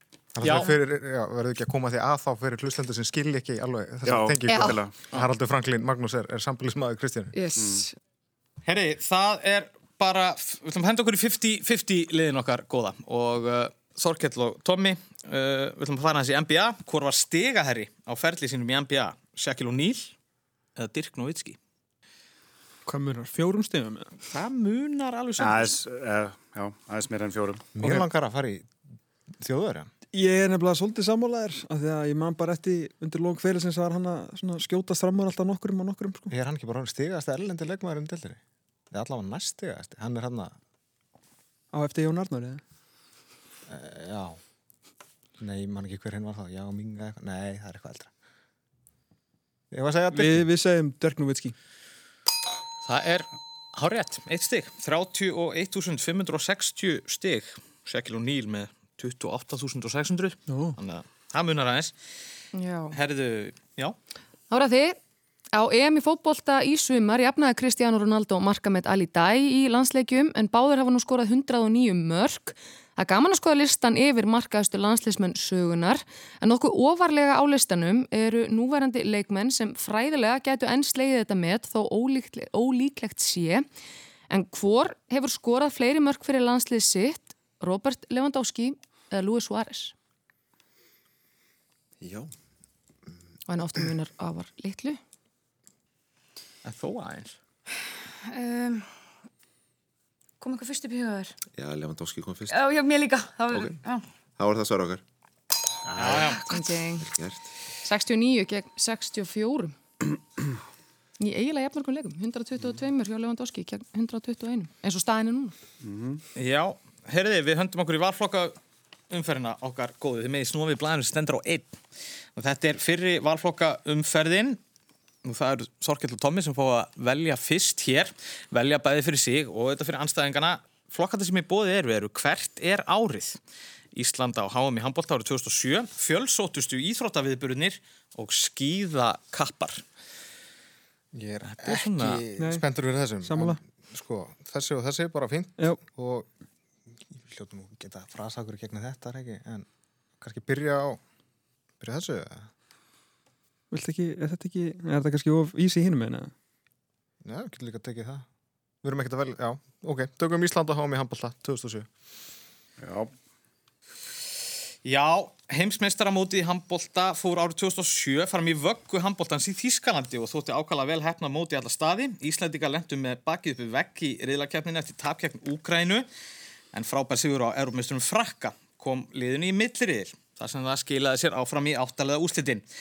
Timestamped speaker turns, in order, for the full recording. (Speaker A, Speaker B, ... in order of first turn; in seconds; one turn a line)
Speaker A: 0.4-7.3
Speaker B: 0.4-0.7
Speaker C: 4.0-4.9
Speaker D: 4.5-4.8
Speaker D: 7.3-7.9
Speaker B: 8.6-20.1
Speaker B: 20.8-21.6
Speaker E: 22.9-24.1
Speaker B: 24.3-25.8
Speaker C: 25.4-27.7
Speaker A: 27.8-28.7
Speaker A: 29.4-29.9
Speaker E: 30.1-36.3
Speaker A: 36.3-38.4
Speaker A: 38.9-40.6
Speaker E: 41.7-42.6
Speaker A: 43.7-44.4
Speaker A: 45.4-48.1
Speaker A: 49.7-50.5
Speaker E: 50.1-51.5
Speaker B: 52.9-61.9
Speaker E: 60.5-60.8
Speaker D: 62.5-63.0
Speaker B: 62.9-64.0
Speaker D: 64.5-65.0
Speaker D: 65.5-83.7
Speaker D: 84.3-89.9
Speaker F: 92.0-92.3
Speaker D: 93.5-95.0
Speaker B: 96.7-97.4
Speaker G: 98.2-98.9
Speaker G: 100.4-101.3
Speaker F: 101.5-102.6
Speaker G: 102.5-104.1
Speaker F: 103.5-103.8
Speaker F: 104.4-105.0
Speaker C: 105.9-106.3
Speaker B: 106.0-106.5
Speaker D: 106.5-107.1
Speaker F: 107.0-107.5
Speaker D: 107.8-109.8
Speaker D: 111.2-115.5
Speaker C: 115.8-116.2
Speaker B: 116.3-118.6
Speaker B: 119.1-121.8
Speaker B: 122.4-124.6
Speaker B: 125.2-133.4
Speaker B: 133.9-139.8
Speaker A: 141.1-146.3
Speaker B: 141.5-142.2
Speaker E: 142.4-142.7
Speaker E: 143.2-143.6
Speaker A: 147.1-149.7
Speaker A: 150.2-151.0
Speaker A: 151.8-152.5
Speaker E: 153.7-156.3
Speaker A: 157.2-158.3
Speaker A: 158.8-161.9
Speaker C: 162.8-163.1
Speaker B: 164.8-176.1
Speaker B: 176.7-182.6